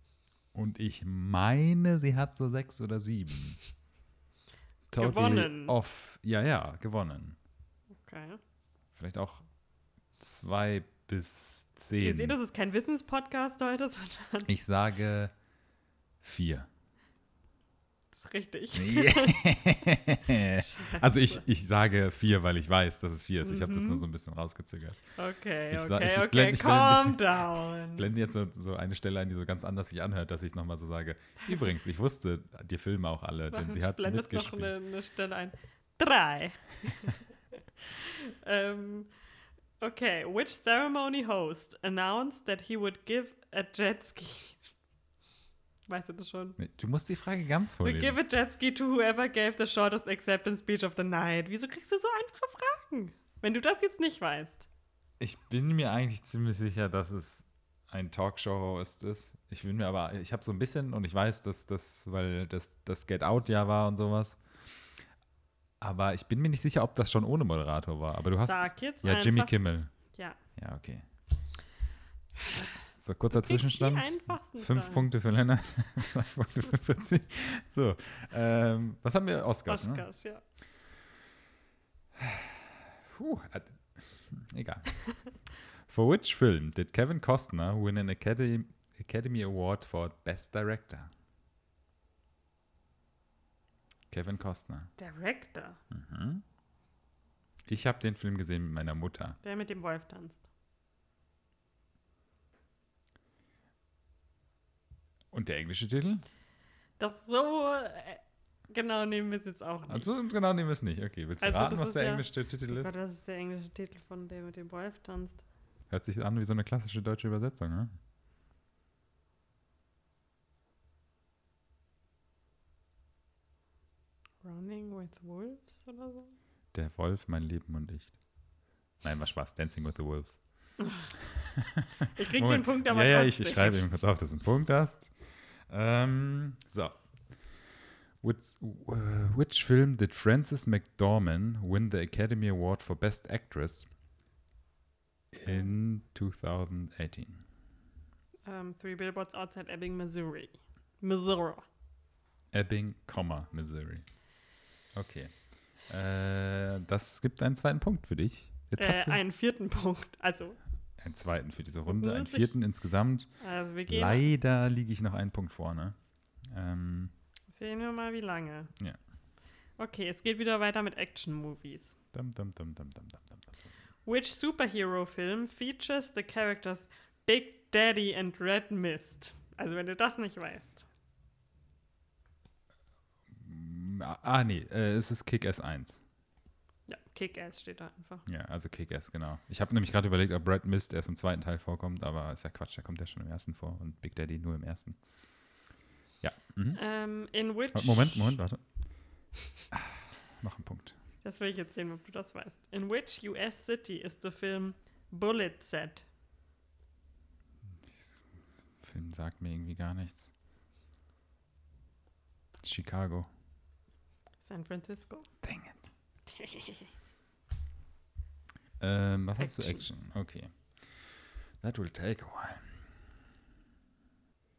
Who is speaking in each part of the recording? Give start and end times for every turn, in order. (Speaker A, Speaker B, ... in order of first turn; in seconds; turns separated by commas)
Speaker A: 0.5-3.6, Speaker A: 4.9-7.4, Speaker B: 5.0-5.7, Speaker B: 8.0-8.4, Speaker A: 8.9-9.5, Speaker A: 10.2-12.3, Speaker B: 12.0-14.5, Speaker A: 14.4-15.3, Speaker A: 16.2-16.7, Speaker B: 18.2-19.6, Speaker A: 18.7-25.0, Speaker B: 20.4-21.4, Speaker B: 23.4-24.0, Speaker B: 25.1-28.1, Speaker A: 25.7-34.7, Speaker B: 33.5-37.2, Speaker B: 38.0-39.1, Speaker B: 39.8-44.7, Speaker B: 45.9-46.6, Speaker A: 46.6-48.2, Speaker B: 47.8-54.7, Speaker A: 55.2-64.4, Speaker A: 65.8-69.9, Speaker B: 68.4-69.5, Speaker B: 70.1-70.4, Speaker A: 70.6-71.0, Speaker A: 73.0-80.0, Speaker B: 73.3-75.1, Speaker B: 79.7-80.4, Speaker A: 82.2-85.0, Speaker A: 85.9-91.1, Speaker A: 94.1-94.9, Speaker B: 95.0-95.8, Speaker A: 95.9-96.4, Speaker A: 97.7-99.4, Speaker B: 99.4-100.4, Speaker A: 105.3-106.2, Speaker B: 107.0-110.1, Speaker A: 109.9-112.9, Speaker B: 111.4-115.4, Speaker A: 115.9-117.9, Speaker B: 124.4-126.3, Speaker A: 126.7-128.1, Speaker A: 129.0-130.4, Speaker B: 130.8-131.1, Speaker A: 131.2-135.1, Speaker B: 132.1-133.8, Speaker A: 135.7-137.0, Speaker A: 138.2-143.9, Speaker A: 145.3-147.4, Speaker B: 145.4-145.7, Speaker B: 148.4-151.6, Speaker A: 152.5-154.0, Speaker A: 154.9-155.3, Speaker A: 155.9-159.2, Speaker B: 158.8-160.6, Speaker A: 161.0-163.3, Speaker B: 161.8-162.5, Speaker B: 163.4-164.2, Speaker A: 163.9-167.1, Speaker B: 167.5-168.7, Speaker B: 169.8-171.9, Speaker A: 172.1-173.6, Speaker B: 174.1-180.8, Speaker A: 183.3-186.0, Speaker B: 186.9-188.2, Speaker A: 188.2-195.0, Speaker A: 196.2-196.8, Speaker B: 196.7-198.4, Speaker A: 197.7-198.6, Speaker A: 199.7-200.9, Speaker B: 201.2-206.1, Speaker A: 207.8-208.2, Speaker A: 208.8-210.3, Speaker A: 212.6-213.3, Speaker B: 214.4-215.3, Speaker A: 215.4-215.8, Speaker B: 216.3-216.9, Speaker A: 218.8-222.8, Speaker B: 219.4-219.8